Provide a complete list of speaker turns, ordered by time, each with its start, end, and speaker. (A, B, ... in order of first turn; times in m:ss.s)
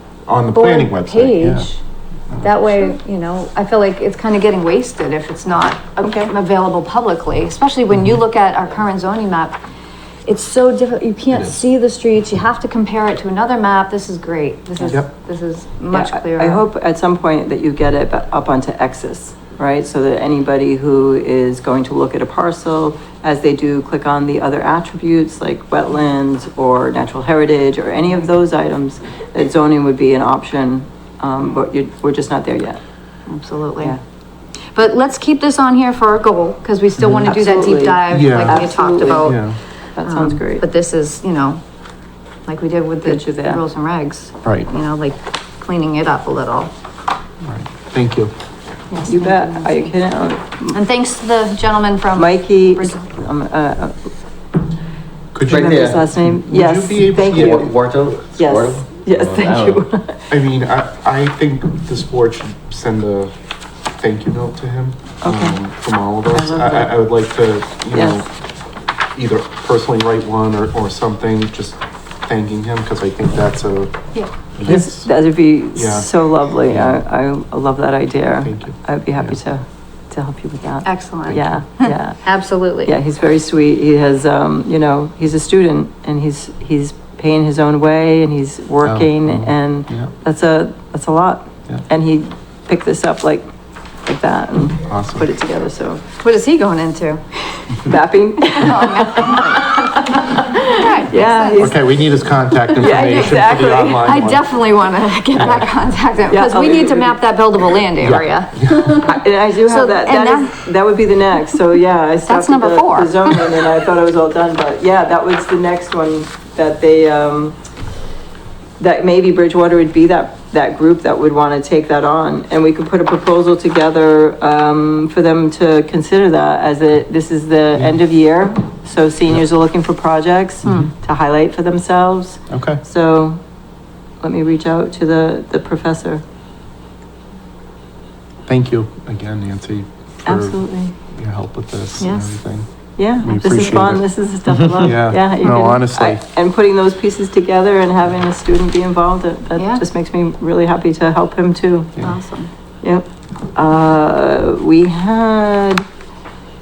0:00.3-0:01.7 A
0:00.5-0:01.8 B
0:02.3-0:02.9 A
0:02.4-0:09.6 B
0:06.0-0:06.3 C
0:10.2-0:16.6 B
0:15.9-0:32.8 C
0:33.3-0:34.0 B
0:34.7-0:41.6 B
0:37.2-0:39.4 C
0:38.1-0:38.6 A
0:39.1-0:39.6 A
0:39.9-0:40.6 C
0:42.4-0:46.7 B
0:43.0-0:43.6 C
0:44.4-0:44.7 A
0:47.4-0:48.3 A
0:48.9-0:49.9 B
0:49.0-0:50.8 C
0:50.7-0:53.0 B
0:52.1-0:54.1 C
0:55.3-0:57.8 A
0:55.5-0:57.7 C
0:55.5-0:56.0 D
0:57.1-0:59.8 D
0:58.3-1:00.2 C
1:00.3-1:03.3 A
1:04.0-1:08.3 A
1:05.2-1:05.6 C
1:06.3-1:07.0 C
1:07.9-1:08.2 C
1:09.1-1:14.0 A
1:14.6-1:15.1 A
1:14.6-1:33.4 C
1:15.7-1:17.0 A
1:18.4-1:19.4 A
1:20.8-1:22.9 B
1:21.3-1:21.6 A
1:28.8-1:30.1 A
1:34.0-1:36.0 C
1:34.8-1:35.2 A
1:36.2-1:37.9 B
1:37.8-1:40.2 C
1:38.4-1:41.7 B
1:40.8-1:42.0 C
1:41.6-1:44.5 A
1:42.7-1:44.1 C
1:42.7-1:50.6 B
1:45.4-1:45.7 A
1:46.3-1:47.2 C
1:48.0-1:48.8 A
1:49.0-1:57.6 C
1:52.2-1:53.5 B
1:58.8-2:13.4 C
2:07.7-2:08.0 A
2:10.6-2:10.9 A
2:10.6-2:10.9 B
2:12.5-2:12.8 A
2:14.2-2:16.2 C
2:18.5-2:24.1 A
2:20.2-2:20.9 C
2:22.0-2:22.4 B
2:23.0-2:32.0 C
2:23.4-2:23.8 B
2:24.6-2:26.2 A
2:25.4-2:25.7 B
2:29.6-2:29.8 B
2:32.0-2:32.5 B
2:32.8-2:35.8 C